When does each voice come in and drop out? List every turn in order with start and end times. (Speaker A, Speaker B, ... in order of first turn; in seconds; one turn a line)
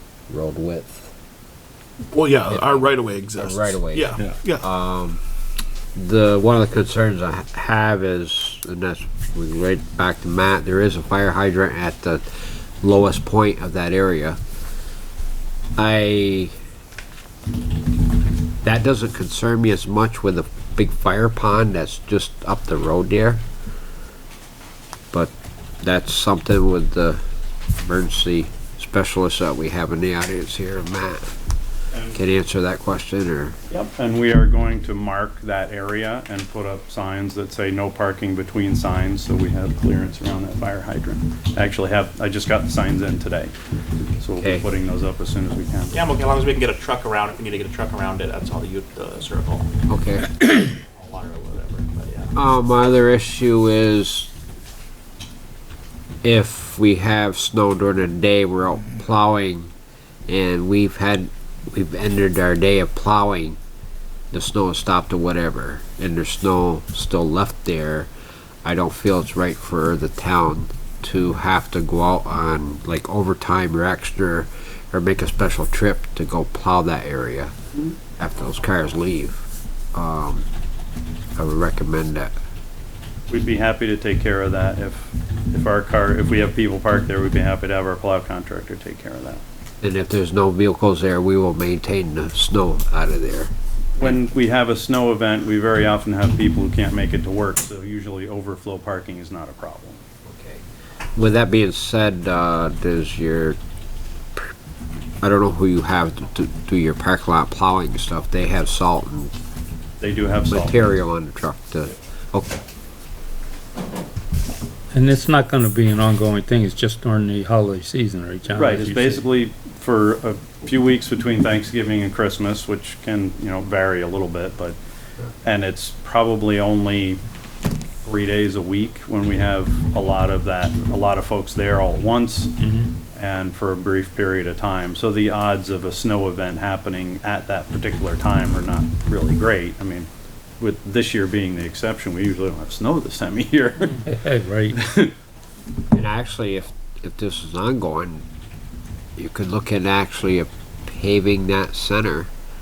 Speaker A: 0.3-1.1
Speaker B: 2.1-4.7
Speaker A: 2.5-5.2
Speaker A: 6.0-14.4
Speaker A: 15.8-16.5
Speaker A: 18.6-23.4
Speaker A: 25.1-27.2
Speaker A: 27.8-31.4
Speaker C: 31.9-32.2
Speaker A: 32.1-33.6
Speaker C: 33.7-43.5
Speaker C: 44.2-46.0
Speaker A: 44.4-44.7
Speaker D: 45.9-49.7
Speaker A: 49.9-50.5
Speaker D: 50.5-52.3
Speaker A: 52.3-54.3
Speaker A: 56.2-59.7
Speaker A: 60.3-63.6
Speaker A: 64.3-68.1
Speaker A: 68.6-77.5
Speaker A: 78.2-80.5
Speaker A: 81.3-82.3
Speaker C: 83.3-89.4
Speaker A: 89.8-94.2
Speaker C: 94.0-100.0
Speaker A: 100.2-100.6
Speaker A: 101.2-103.6
Speaker A: 105.2-109.3
Speaker C: 110.0-110.8
Speaker A: 110.5-112.6
Speaker E: 114.9-119.2
Speaker C: 118.5-124.8
Speaker C: 125.4-127.2
Speaker C: 128.0-140.1
Speaker C: 140.6-144.1
Speaker E: 144.1-144.8
Speaker C: 144.7-145.1
Speaker A: 145.9-148.2
Speaker A: 149.2-152.3